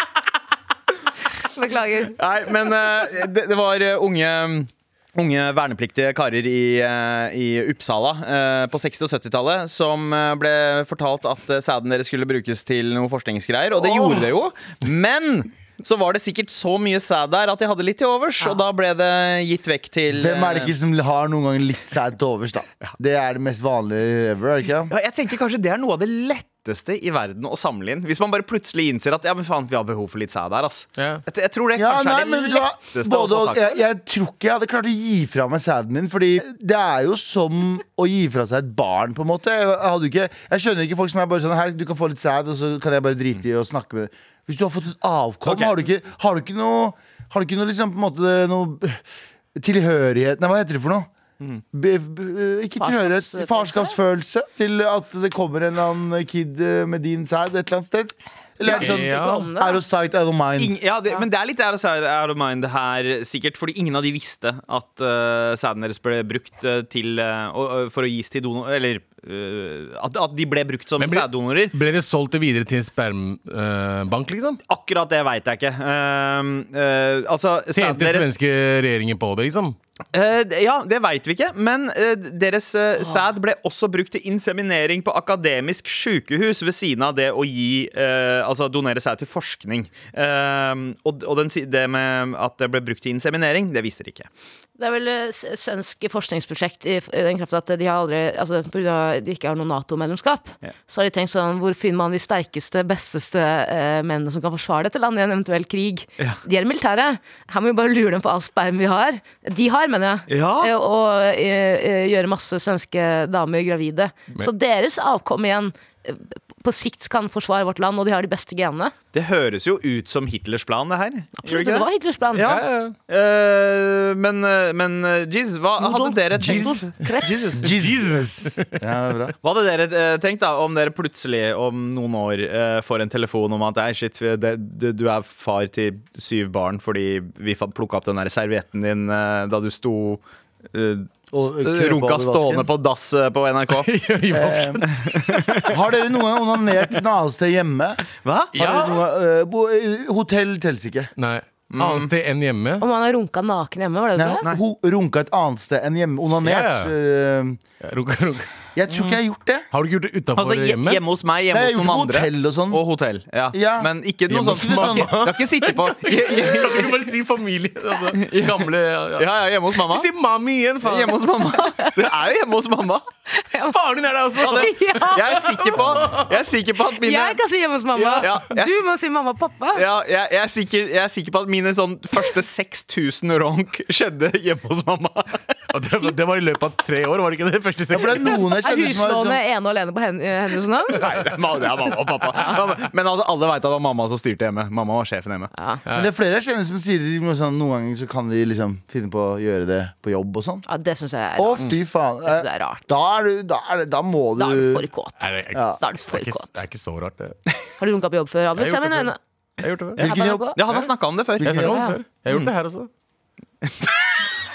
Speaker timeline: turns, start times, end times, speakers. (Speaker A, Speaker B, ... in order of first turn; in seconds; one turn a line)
Speaker A: 1.5-2.2
Speaker B: 2.2-20.7
Speaker C: 20.1-24.9
Speaker B: 24.9-33.7
Speaker D: 31.0-31.2
Speaker C: 31.8-49.0
Speaker B: 45.5-45.9
Speaker C: 49.5-51.1
Speaker C: 51.7-60.8
Speaker A: 52.8-54.0
Speaker A: 58.6-59.8
Speaker D: 58.7-59.5
Speaker B: 60.6-71.8
Speaker D: 71.0-74.6
Speaker B: 74.7-78.3
Speaker D: 77.7-79.8
Speaker B: 80.1-94.3
Speaker A: 94.8-118.9
Speaker B: 110.3-110.7
Speaker B: 119.1-127.6
Speaker A: 121.4-122.5
Speaker A: 125.8-127.7
Speaker D: 126.3-126.8
Speaker D: 127.5-128.8
Speaker C: 127.5-129.3
Speaker B: 129.4-143.9
Speaker C: 141.3-142.7
Speaker D: 143.7-145.7
Speaker C: 144.3-144.8
Speaker B: 144.9-145.8
Speaker C: 145.6-148.0
Speaker B: 148.2-148.5
Speaker D: 148.5-149.0
Speaker C: 148.5-151.1
Speaker D: 151.2-152.8
Speaker B: 151.7-152.1
Speaker A: 152.8-154.4
Speaker C: 154.1-157.6
Speaker D: 156.4-156.9
Speaker D: 157.8-158.5
Speaker C: 158.8-159.7
Speaker B: 158.9-159.2
Speaker D: 159.7-161.0
Speaker B: 160.3-167.1
Speaker C: 161.5-162.8
Speaker C: 163.5-165.3
Speaker D: 164.3-171.2
Speaker B: 168.1-170.1
Speaker B: 170.8-173.0
Speaker A: 173.3-173.8
Speaker D: 173.7-176.3
Speaker A: 174.4-175.7
Speaker B: 174.4-177.4
Speaker A: 176.9-179.8
Speaker D: 178.0-178.3
Speaker B: 178.2-178.8
Speaker B: 179.7-185.5
Speaker D: 185.7-188.4
Speaker C: 187.9-189.4
Speaker A: 188.1-191.1
Speaker B: 190.9-195.5
Speaker A: 195.6-195.8
Speaker C: 195.9-200.6
Speaker A: 200.7-202.8
Speaker C: 201.4-204.8
Speaker A: 204.4-206.5
Speaker D: 205.2-207.4
Speaker C: 205.5-205.8
Speaker A: 207.8-209.2
Speaker D: 208.6-210.0
Speaker C: 210.0-210.5
Speaker A: 210.0-210.6
Speaker B: 210.0-212.5
Speaker D: 211.4-212.9
Speaker C: 211.4-211.7
Speaker A: 211.5-212.0